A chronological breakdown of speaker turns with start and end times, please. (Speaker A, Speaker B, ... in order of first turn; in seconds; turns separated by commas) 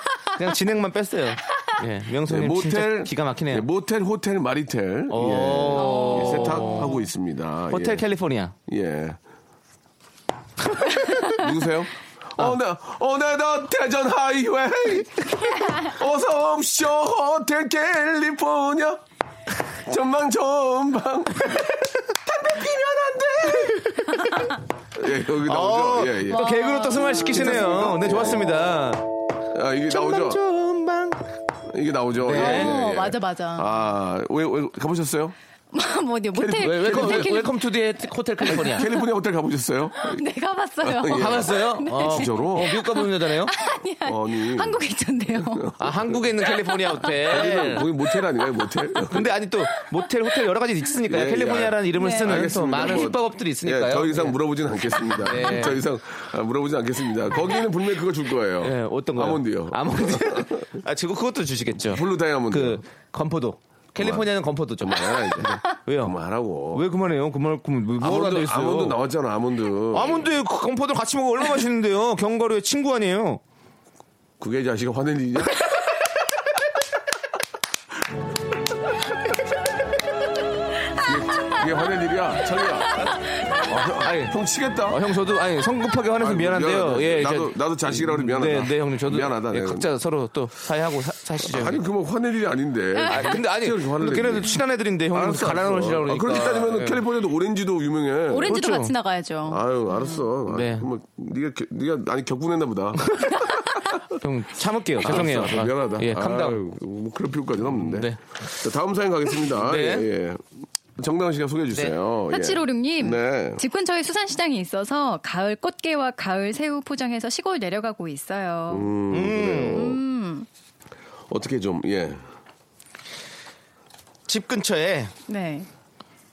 Speaker A: 0.3-3.7, Speaker B: 2.3-8.1, Speaker A: 5.1-7.0, Speaker C: 5.8-7.0, Speaker A: 7.7-8.5, Speaker B: 8.7-9.2, Speaker B: 11.2-19.0, Speaker B: 19.8-24.1, Speaker C: 24.3-24.5, Speaker B: 24.9-26.5, Speaker A: 25.4-29.1, Speaker C: 26.3-27.5, Speaker B: 27.3-28.7, Speaker B: 29.5-30.4, Speaker A: 29.9-31.3, Speaker B: 31.7-35.4, Speaker A: 32.2-32.7, Speaker C: 32.3-33.7, Speaker C: 35.7-37.5, Speaker B: 36.4-37.5, Speaker A: 36.6-38.9, Speaker B: 38.5-40.2, Speaker C: 38.5-38.9, Speaker C: 40.0-45.8, Speaker B: 40.8-42.7, Speaker A: 41.0-43.5, Speaker B: 44.0-44.8, Speaker B: 45.4-46.2, Speaker A: 45.8-47.9, Speaker C: 46.6-47.9, Speaker B: 47.3-49.3, Speaker C: 48.4-48.7, Speaker A: 49.1-54.4, Speaker B: 51.1-60.7, Speaker C: 52.0-53.0, Speaker A: 55.1-55.8, Speaker A: 58.6-66.2, Speaker B: 61.8-62.8, Speaker B: 64.0-64.3, Speaker B: 64.8-66.8, Speaker A: 66.7-69.0, Speaker B: 68.0-70.3, Speaker A: 69.9-73.4, Speaker B: 74.4-75.7, Speaker B: 81.0-83.1, Speaker B: 83.6-85.0, Speaker A: 84.0-91.8, Speaker B: 86.2-89.9, Speaker B: 91.4-94.6, Speaker C: 92.9-93.3, Speaker A: 93.1-97.0, Speaker B: 95.1-98.6, Speaker C: 98.3-100.2, Speaker A: 98.5-98.9, Speaker B: 99.5-104.0, Speaker A: 100.5-100.9, Speaker A: 104.2-106.6, Speaker B: 105.0-110.4, Speaker A: 107.8-108.2, Speaker A: 109.5-110.1, Speaker B: 111.0-113.6, Speaker C: 112.3-118.9, Speaker B: 118.7-120.0, Speaker A: 119.1-119.9, Speaker C: 119.7-120.5, Speaker B: 121.3-122.2, Speaker A: 124.3-125.1, Speaker C: 125.3-125.7